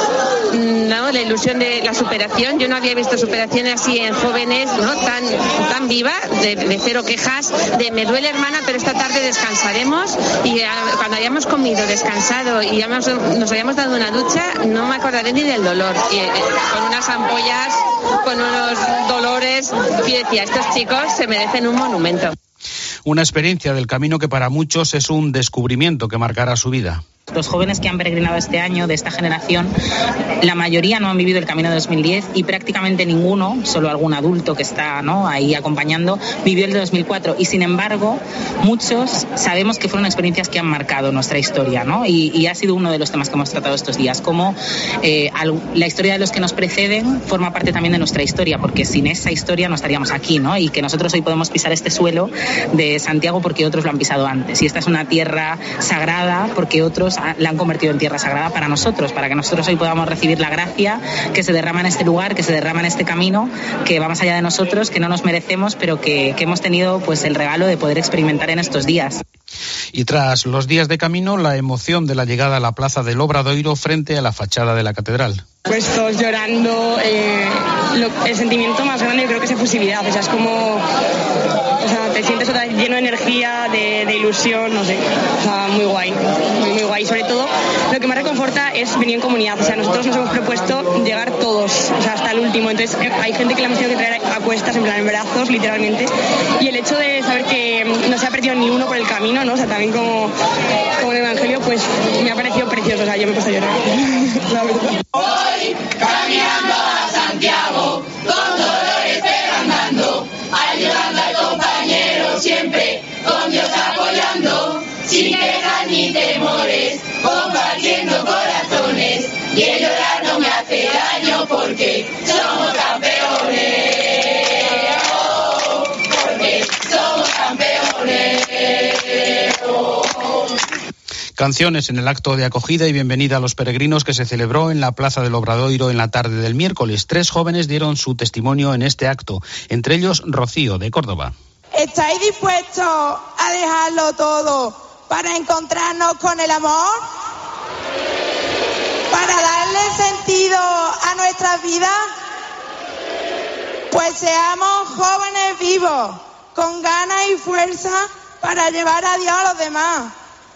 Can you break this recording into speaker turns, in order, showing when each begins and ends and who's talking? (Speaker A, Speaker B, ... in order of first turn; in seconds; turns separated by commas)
Speaker A: 0.5-22.3, Speaker B: 23.0-27.0, Speaker C: 27.3-29.7, Speaker C: 30.4-69.2, Speaker B: 69.9-75.4, Speaker D: 75.7-80.8, Speaker D: 81.8-100.3, Speaker D: 101.0-105.0, Speaker D: 106.1-106.6, Speaker D: 107.3-107.6, Speaker B: 131.4-141.3, Speaker E: 141.7-147.0, Speaker E: 149.1-152.0, Speaker E: 153.9-160.1